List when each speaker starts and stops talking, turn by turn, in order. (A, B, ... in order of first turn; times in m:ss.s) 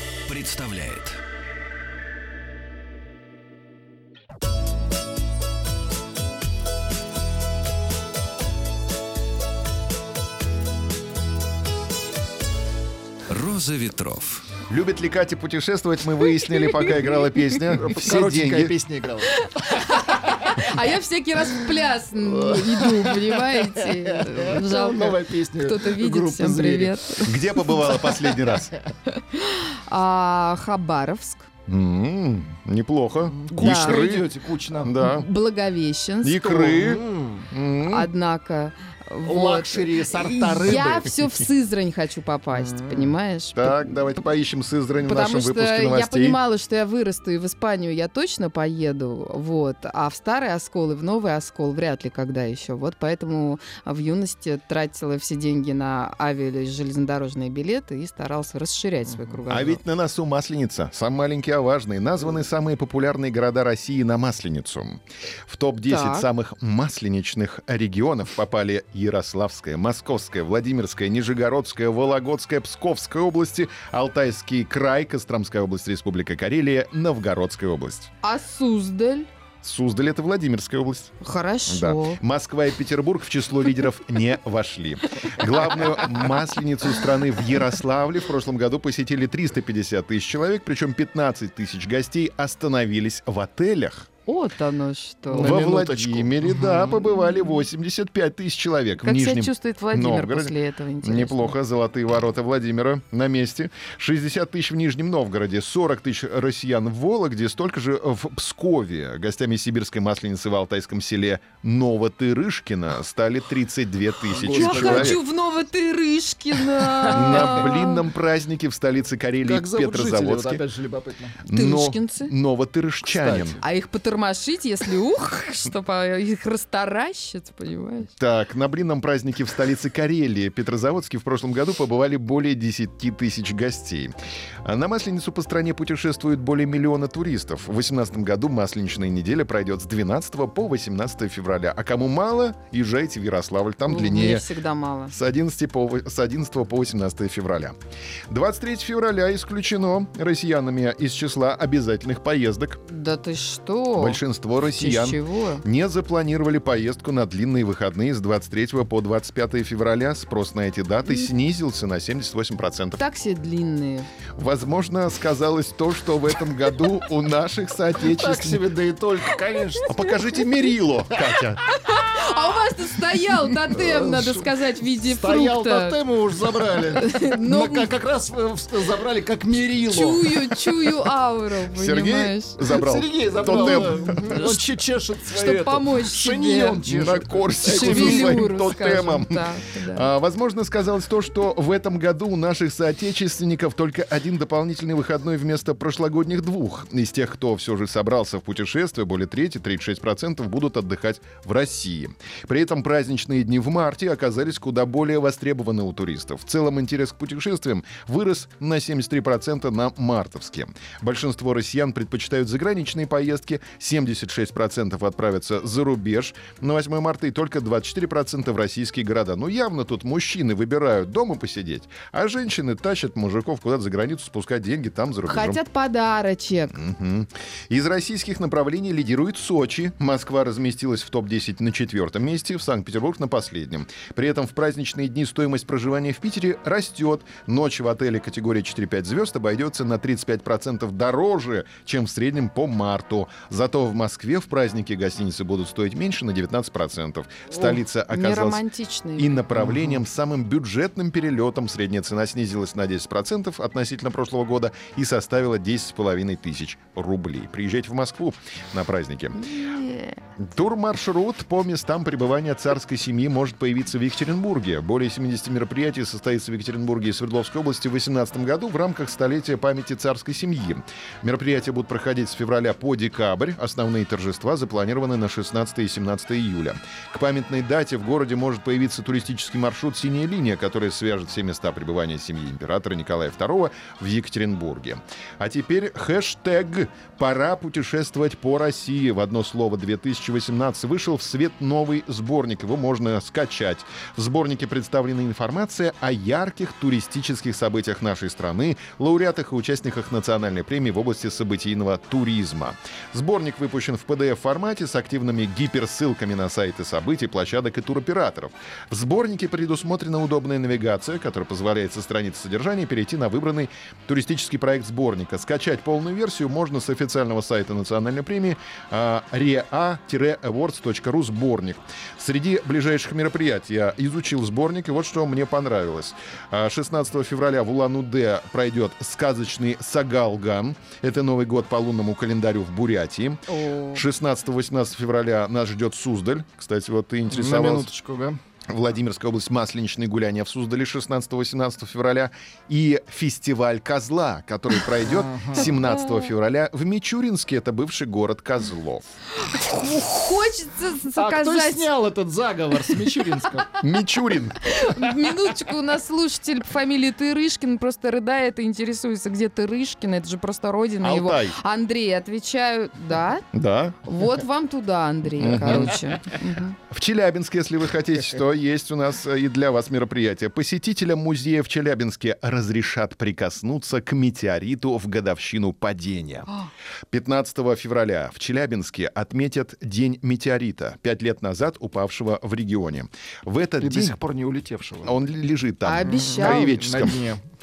0:00.2-0:01.2 A
0:13.3-0:14.5 A
0:14.7-0:18.7 B
0:17.7-0:20.4 C
0:19.3-0:28.0 D
0:22.3-0:26.9 C
0:27.2-0:28.7 B
0:29.0-0:31.5 D
0:31.7-0:34.3 B
0:33.4-0:34.9 C
0:33.5-0:34.0 D
0:34.8-0:35.3 B
0:35.0-0:36.9 D
0:36.2-0:38.1 B
0:36.9-0:37.4 C
0:37.8-0:43.8 D
0:39.2-0:41.1 C
0:43.6-0:46.4 B
0:45.0-0:59.8 D
0:59.5-1:18.1 B
1:05.9-1:06.3 D
1:18.2-1:19.3 D
1:19.6-1:21.1 B
1:21.2-1:22.2 D
1:21.7-1:34.1 B
1:34.2-1:35.7 D
1:35.3-1:36.9 C
1:35.3-1:55.2 B
1:39.0-1:41.6 D
1:54.3-1:55.2 C
1:54.4-1:58.0 D
1:56.8-1:57.5 C
1:57.1-2:00.6 B
1:59.4-2:01.4 C
2:01.4-2:03.6 B
2:01.5-2:02.3 D
2:03.1-2:03.6 C
2:03.6-2:08.1 D
2:08.2-2:24.5 B
2:23.8-2:25.1 D
2:25.1-2:27.7 B
2:28.3-2:32.8 B
2:32.9-2:35.6 D
2:34.0-2:43.0 B
2:43.0-2:44.1 D
2:44.4-2:48.6 B
2:48.0-2:49.9 C
2:49.9-2:51.6 B
2:51.8-2:56.0 D
2:53.7-2:54.5 C
2:55.0-3:00.9 C
2:56.9-2:57.9 D
2:59.9-3:02.6 D
3:01.7-3:04.5 B
3:02.7-3:08.5 C
3:03.5-3:06.8 D
3:06.9-3:45.6 B
3:07.6-3:10.1 D
3:45.3-3:46.8 D
3:46.7-4:08.6 B
4:07.5-4:09.5 D
4:09.2-4:19.5 B
4:19.4-4:20.2 D
4:20.4-5:37.9 B
5:33.5-5:34.0 D
5:37.3-5:38.4 C
5:38.7-5:49.0 B
5:45.2-5:45.7 C
5:49.4-5:51.9 D
5:51.1-5:53.8 C
5:53.8-5:54.6 B
5:54.6-6:03.4 D
6:01.0-6:01.6 B
6:03.5-6:04.0 B
6:04.0-6:06.8 D
6:05.4-6:06.0 B
6:06.9-6:16.5 B
6:17.1-6:24.2 B
6:23.8-6:25.1 C
6:25.0-6:27.2 B
6:25.8-6:26.7 D
6:26.1-6:27.4 C